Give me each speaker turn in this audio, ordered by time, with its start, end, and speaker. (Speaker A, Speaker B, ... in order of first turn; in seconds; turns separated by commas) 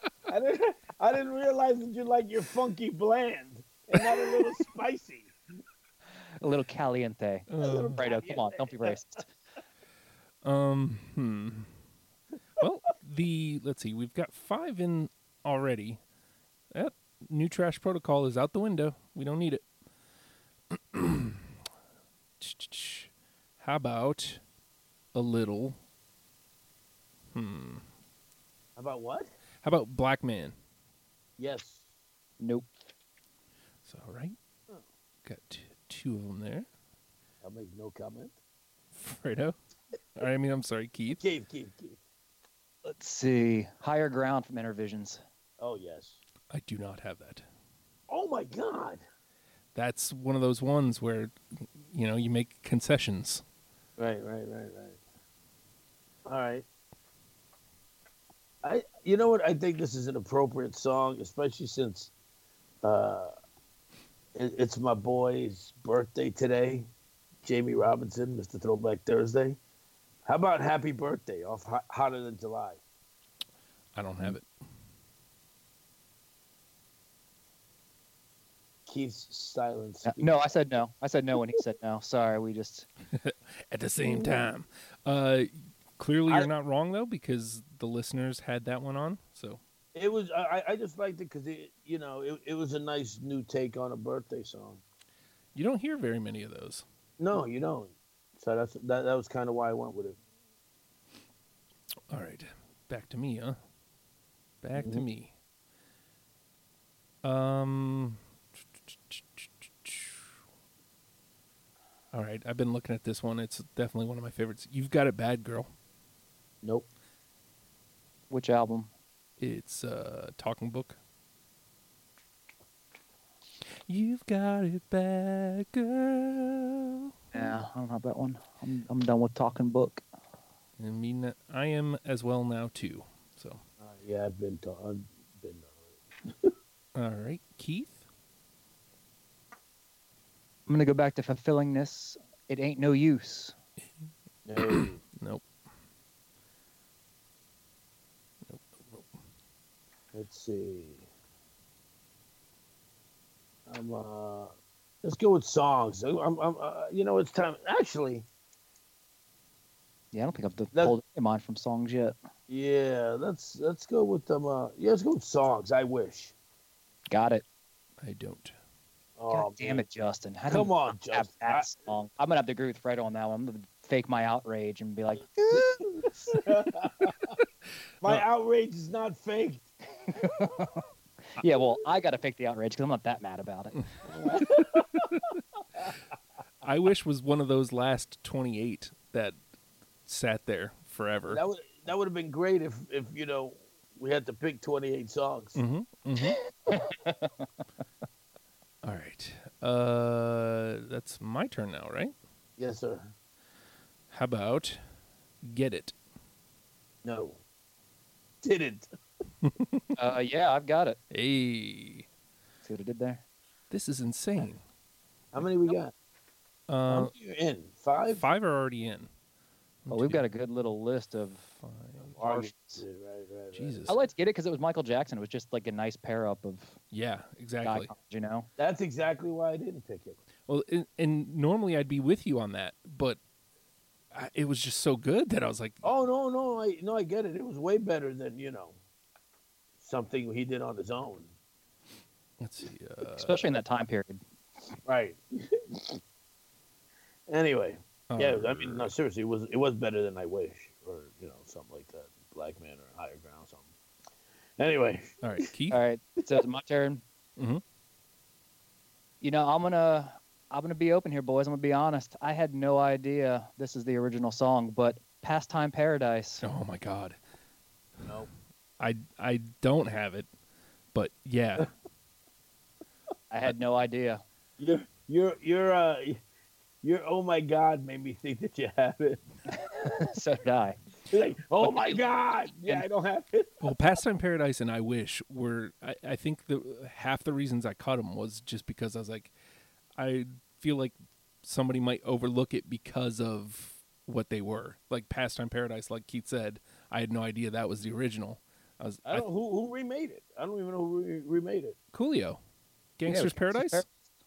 Speaker A: 0.3-5.3, Speaker B: 6.4-9.3, Speaker C: 7.5-8.0, Speaker A: 7.6-9.0, Speaker C: 10.4-11.7, Speaker C: 12.6-16.0, Speaker C: 16.7-19.6, Speaker C: 20.7-21.4, Speaker C: 22.4-24.4, Speaker C: 25.1-25.8, Speaker C: 27.3-27.8, Speaker A: 28.8-29.3, Speaker C: 29.6-30.6, Speaker A: 31.4-31.9, Speaker B: 32.4-32.7, Speaker C: 33.9-34.4, Speaker C: 35.2-36.7, Speaker A: 37.4-38.4, Speaker C: 38.9-39.6, Speaker C: 40.2-41.2, Speaker A: 41.2-42.0, Speaker B: 42.9-45.2, Speaker A: 45.6-46.2, Speaker C: 46.5-47.5, Speaker A: 48.1-49.0, Speaker C: 49.8-53.4, Speaker A: 54.0-55.0, Speaker A: 56.3-56.7, Speaker A: 58.6-62.1, Speaker A: 62.8-63.3, Speaker A: 64.3-66.9, Speaker A: 67.4-69.6, Speaker A: 70.2-72.8, Speaker C: 74.0-74.5, Speaker A: 78.9-80.4, Speaker B: 80.0-82.9, Speaker C: 83.1-89.6, Speaker A: 90.0-94.8, Speaker C: 95.5-96.8, Speaker A: 97.2-100.2, Speaker C: 102.1-103.6, Speaker C: 104.6-105.3, Speaker A: 104.8-105.0, Speaker C: 107.2-108.2, Speaker C: 108.9-110.3, Speaker C: 112.1-115.7, Speaker B: 118.3-118.9, Speaker C: 119.4-121.0, Speaker C: 123.9-127.1, Speaker B: 127.3-130.0, Speaker C: 130.8-133.6, Speaker A: 133.8-136.5, Speaker C: 136.9-138.0, Speaker B: 140.7-143.6, Speaker A: 144.5-145.0, Speaker C: 144.7-145.4, Speaker C: 148.4-149.1, Speaker A: 150.1-151.1, Speaker A: 153.7-158.3, Speaker B: 160.1-162.2, Speaker A: 162.5-166.3, Speaker B: 167.1-167.4, Speaker C: 168.0-168.6, Speaker A: 169.2-169.8, Speaker B: 169.3-176.3, Speaker A: 170.5-171.7, Speaker A: 175.5-177.4, Speaker A: 178.0-179.7, Speaker B: 180.1-180.8, Speaker B: 181.3-183.8, Speaker A: 184.1-185.2, Speaker C: 184.5-185.3, Speaker C: 186.6-189.4, Speaker C: 190.1-191.4, Speaker A: 191.3-195.6, Speaker C: 195.6-196.4, Speaker B: 196.7-197.3, Speaker C: 198.8-202.1, Speaker A: 202.6-203.1, Speaker C: 204.1-204.8, Speaker C: 205.4-205.9, Speaker A: 207.0-207.4, Speaker A: 208.4-208.9, Speaker C: 209.4-209.9, Speaker B: 210.0-211.0, Speaker C: 211.1-212.1, Speaker B: 212.6-213.2, Speaker C: 213.7-214.6, Speaker A: 215.3-215.9, Speaker C: 216.7-217.1, Speaker A: 216.9-218.2, Speaker C: 218.1-219.1, Speaker C: 219.9-220.2, Speaker B: 219.9-221.5, Speaker C: 221.6-222.2, Speaker A: 222.2-223.9, Speaker B: 222.2-222.8, Speaker C: 223.5-224.0, Speaker B: 223.9-226.8, Speaker C: 226.9-227.9, Speaker B: 227.6-228.5, Speaker A: 228.6-230.2, Speaker C: 230.5-233.2, Speaker C: 234.1-235.9, Speaker A: 235.8-238.8, Speaker A: 239.8-241.3, Speaker C: 242.4-243.6, Speaker B: 243.2-244.2, Speaker A: 244.9-246.0, Speaker A: 247.3-253.7, Speaker C: 248.1-248.9, Speaker A: 254.6-255.5, Speaker C: 255.2-255.8, Speaker B: 255.7-257.0, Speaker C: 257.4-257.6, Speaker B: 259.2-266.4, Speaker C: 266.4-267.2, Speaker A: 268.1-268.3, Speaker C: 268.8-270.3, Speaker C: 270.9-271.7, Speaker B: 273.3-274.2, Speaker A: 274.6-276.2, Speaker A: 276.8-279.2, Speaker B: 279.5-280.8, Speaker A: 281.1-283.6, Speaker B: 281.6-282.0, Speaker C: 283.6-289.3, Speaker C: 290.0-299.2, Speaker A: 299.1-301.8, Speaker C: 301.9-302.4, Speaker C: 303.0-303.8, Speaker B: 303.1-303.9